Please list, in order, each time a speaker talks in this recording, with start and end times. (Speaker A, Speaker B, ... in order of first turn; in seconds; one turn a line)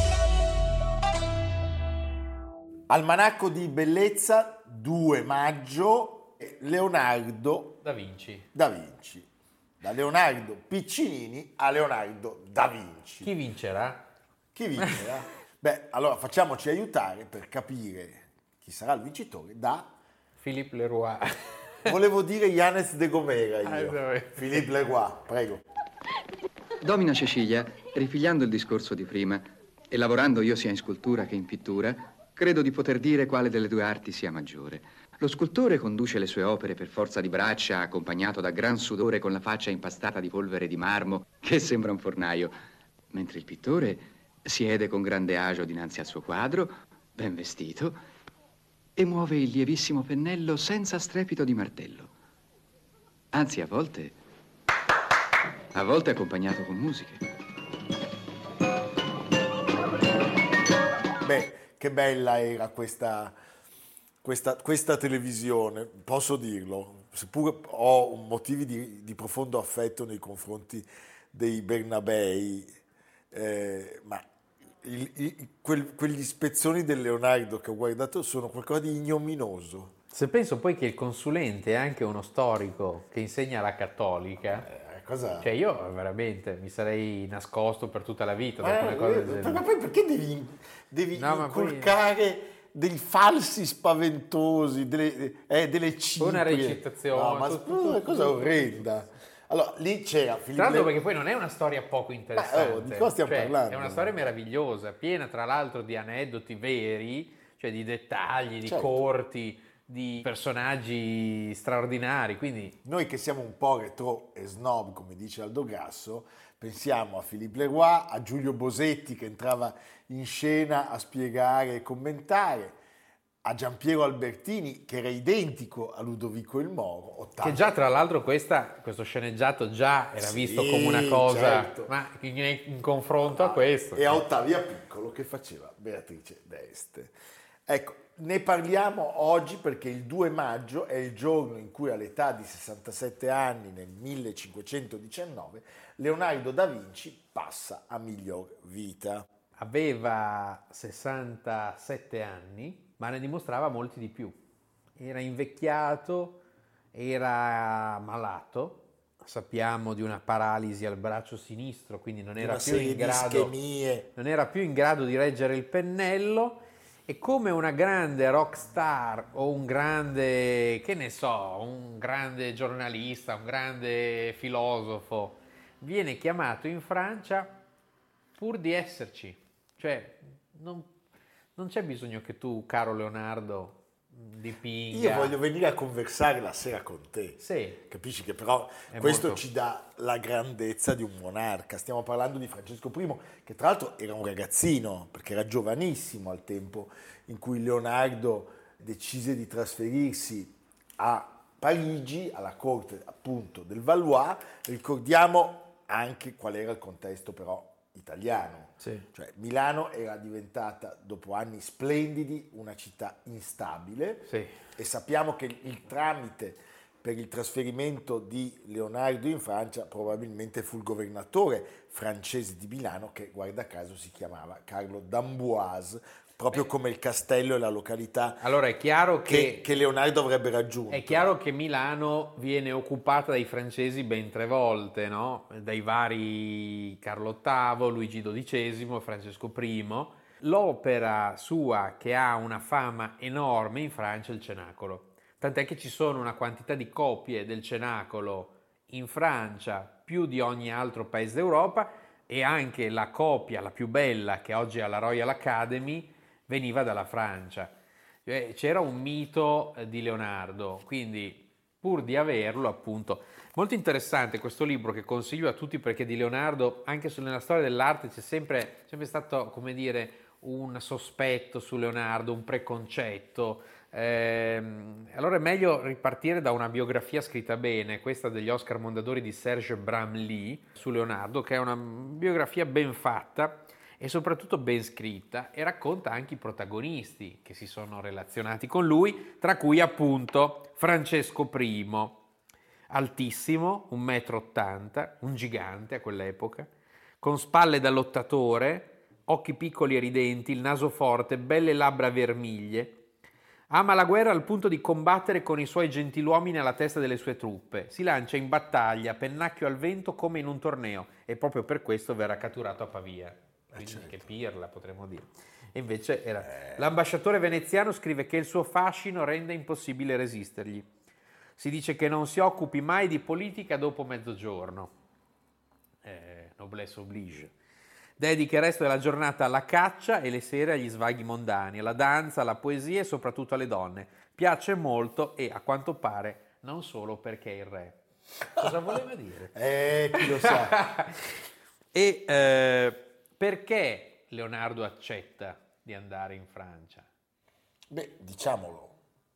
Speaker A: 2.9-7.8
Speaker B: 7.8-8.5
Speaker A: 8.5-9.3
Speaker A: 9.8-13.3
Speaker B: 13.2-14.1
Speaker A: 14.5-19.9
Speaker B: 20.4-21.9
Speaker A: 21.8-25.6
Speaker B: 23.6-24.6
Speaker C: 26.8-42.5
Speaker C: 43.1-48.0
Speaker C: 49.0-52.1
Speaker C: 53.3-54.2
Speaker C: 55.7-57.2
Speaker A: 61.2-63.4
Speaker A: 64.2-72.7
Speaker A: 73.3-74.2
Speaker A: 74.8-79.9
Speaker B: 80.1-84.7
Speaker A: 84.5-85.5
Speaker B: 85.4-89.6
Speaker A: 88.6-101.0
Speaker B: 91.1-92.0
Speaker B: 96.2-98.9
Speaker B: 100.5-112.8
Speaker A: 102.3-104.2
Speaker A: 108.7-109.0
Speaker A: 112.8-122.8
Speaker A: 123.4-127.7
Speaker B: 127.4-134.2
Speaker A: 130.2-131.9
Speaker A: 133.3-137.2
Speaker A: 137.7-149.3
Speaker B: 149.6-154.4
Speaker B: 155.0-156.4
Speaker B: 156.9-163.5
Speaker A: 162.4-164.1
Speaker B: 164.2-177.6
Speaker B: 178.3-180.9
Speaker B: 181.6-185.4
Speaker A: 184.9-228.4
Speaker B: 187.4-187.8
Speaker B: 188.9-189.4
Speaker B: 214.3-214.5
Speaker B: 228.4-229.6
Speaker A: 229.3-231.3
Speaker B: 230.9-257.8
Speaker B: 258.3-292.2
Speaker B: 292.9-296.7
Speaker B: 297.2-303.0
Speaker B: 303.7-320.9
Speaker A: 313.7-314.3
Speaker A: 316.4-316.9
Speaker B: 321.6-324.9
Speaker B: 326.0-327.5
Speaker B: 328.2-338.0
Speaker B: 338.6-339.6
Speaker A: 338.6-338.9
Speaker A: 339.5-340.8
Speaker B: 340.1-341.3
Speaker B: 341.9-347.1
Speaker A: 347.9-349.0